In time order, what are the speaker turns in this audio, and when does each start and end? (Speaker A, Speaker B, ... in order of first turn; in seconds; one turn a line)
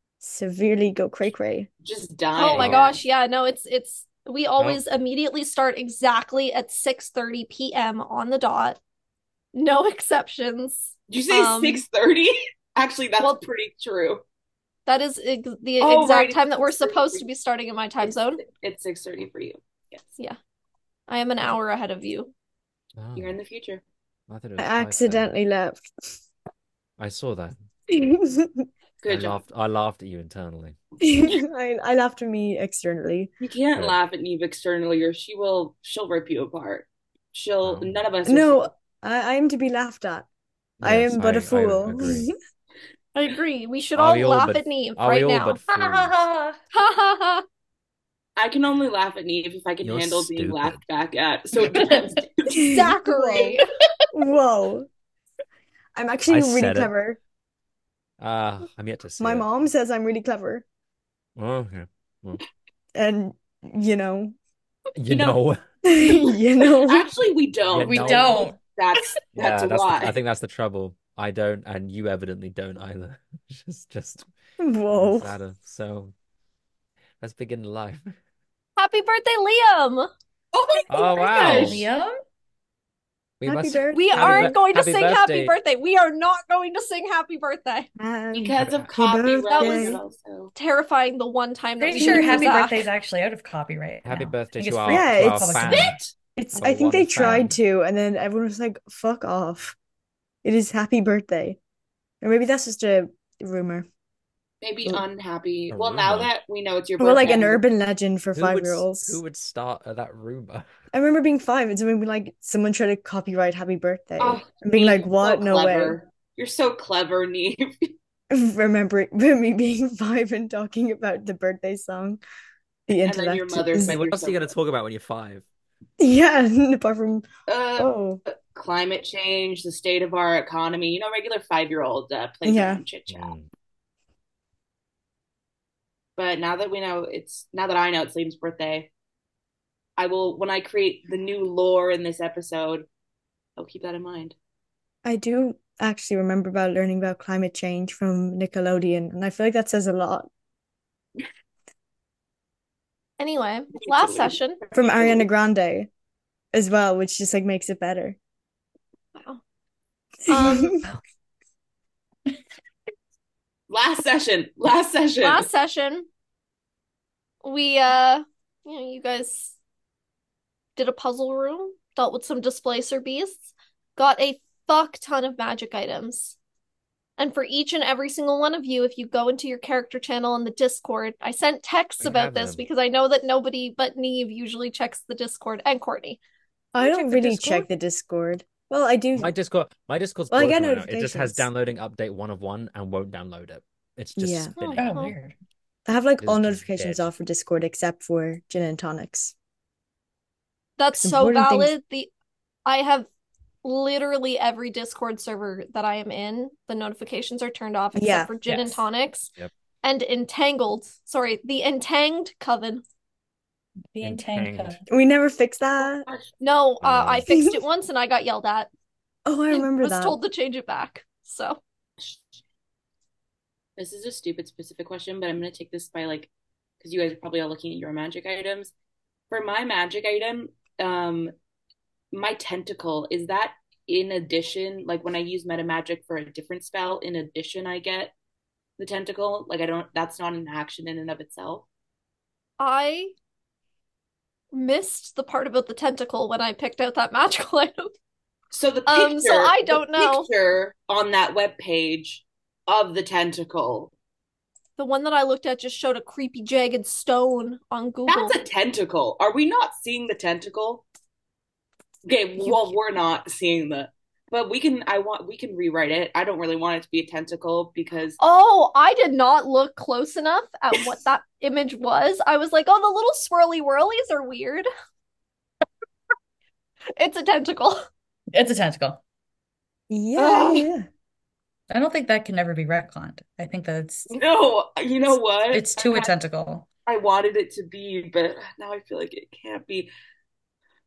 Speaker A: 0.2-1.7
Speaker B: 1.8-3.0
Speaker C: 2.3-8.8
Speaker D: 2.5-2.8
Speaker C: 9.5-11.8
Speaker B: 11.1-14.2
Speaker C: 14.8-18.4
Speaker B: 15.8-17.2
Speaker B: 18.0-20.0
Speaker C: 21.1-22.3
Speaker D: 23.0-23.4
Speaker B: 23.1-23.8
Speaker D: 24.3-25.3
Speaker A: 24.6-25.9
Speaker D: 27.0-27.5
Speaker A: 27.9-28.7
Speaker B: 29.0-29.4
Speaker D: 29.1-30.8
Speaker A: 31.0-33.3
Speaker B: 33.4-38.7
Speaker D: 37.6-38.0
Speaker A: 38.2-40.3
Speaker D: 40.8-42.3
Speaker A: 40.8-42.3
Speaker C: 43.1-45.6
Speaker D: 44.0-46.2
Speaker E: 45.7-46.5
Speaker C: 46.7-47.4
Speaker B: 48.4-52.7
Speaker D: 49.8-50.8
Speaker A: 52.5-53.6
Speaker C: 52.6-53.6
Speaker A: 54.1-54.9
Speaker A: 55.9-57.2
Speaker D: 56.3-56.9
Speaker D: 58.2-59.5
Speaker A: 59.2-60.6
Speaker D: 61.4-62.4
Speaker A: 62.9-64.3
Speaker D: 65.0-65.6
Speaker B: 65.1-65.4
Speaker A: 65.8-67.1
Speaker B: 66.0-70.2
Speaker D: 67.7-68.4
Speaker E: 67.8-68.6
Speaker D: 69.3-74.3
Speaker A: 74.6-75.3
Speaker D: 74.9-76.1
Speaker D: 77.2-78.1
Speaker C: 78.8-80.1
Speaker B: 80.5-81.8
Speaker D: 80.9-81.8
Speaker E: 81.3-82.1
Speaker D: 83.4-85.5
Speaker A: 83.4-84.5
Speaker C: 83.9-87.9
Speaker A: 88.0-90.0
Speaker B: 88.3-90.5
Speaker D: 88.6-88.9
Speaker C: 89.5-90.0
Speaker C: 90.5-92.8
Speaker E: 91.8-96.0
Speaker A: 92.0-92.7
Speaker D: 94.0-96.0
Speaker A: 94.9-99.8
Speaker D: 96.5-97.5
Speaker A: 100.4-101.6
Speaker A: 102.2-103.9
Speaker B: 104.6-107.6
Speaker D: 105.7-106.3
Speaker A: 107.0-109.2
Speaker D: 108.3-110.7
Speaker A: 110.9-116.0
Speaker B: 114.2-117.9
Speaker A: 118.3-122.2
Speaker A: 122.9-124.0
Speaker B: 123.0-124.5
Speaker D: 123.8-125.4
Speaker A: 126.0-128.2
Speaker B: 127.5-133.3
Speaker A: 132.4-132.8
Speaker D: 133.1-133.4
Speaker B: 136.2-138.9
Speaker B: 140.0-142.9
Speaker B: 143.6-144.3
Speaker A: 145.0-150.3
Speaker C: 153.2-154.6
Speaker B: 153.8-155.2
Speaker A: 154.7-155.9
Speaker A: 156.5-158.2
Speaker C: 159.1-159.4
Speaker C: 160.3-160.7
Speaker A: 160.3-160.9
Speaker B: 163.7-165.5
Speaker C: 165.2-166.1
Speaker C: 167.4-169.5
Speaker C: 170.8-176.3
Speaker C: 177.2-186.2
Speaker D: 182.0-182.6
Speaker A: 186.7-189.3
Speaker C: 186.8-187.7
Speaker D: 189.2-194.9
Speaker A: 190.3-191.5
Speaker A: 194.2-194.5
Speaker C: 194.6-195.1
Speaker E: 194.7-195.3
Speaker A: 195.8-199.3
Speaker D: 196.2-197.1
Speaker C: 200.8-202.1
Speaker A: 200.9-201.7
Speaker C: 202.7-203.1
Speaker C: 203.6-209.3
Speaker A: 207.9-208.3
Speaker E: 208.5-208.8
Speaker C: 209.8-212.8
Speaker E: 213.9-214.8
Speaker D: 214.0-214.8
Speaker A: 214.9-216.1
Speaker C: 216.4-218.7
Speaker D: 216.8-217.2
Speaker A: 217.3-217.6
Speaker A: 219.2-220.2
Speaker C: 219.5-221.6
Speaker B: 222.0-222.4
Speaker B: 223.8-226.3
Speaker B: 226.8-228.7
Speaker B: 229.3-231.3
Speaker B: 232.1-238.1
Speaker B: 238.8-241.7
Speaker C: 242.6-243.1
Speaker C: 244.5-247.9
Speaker B: 248.5-253.9
Speaker C: 248.9-250.3
Speaker C: 254.8-258.4
Speaker B: 258.1-260.8
Speaker B: 262.0-268.2
Speaker C: 268.2-274.7
Speaker C: 277.0-277.8
Speaker E: 278.3-279.0
Speaker A: 279.9-280.9
Speaker B: 280.2-280.6
Speaker E: 281.7-284.1
Speaker B: 284.1-286.1
Speaker E: 285.5-286.7
Speaker B: 286.9-289.9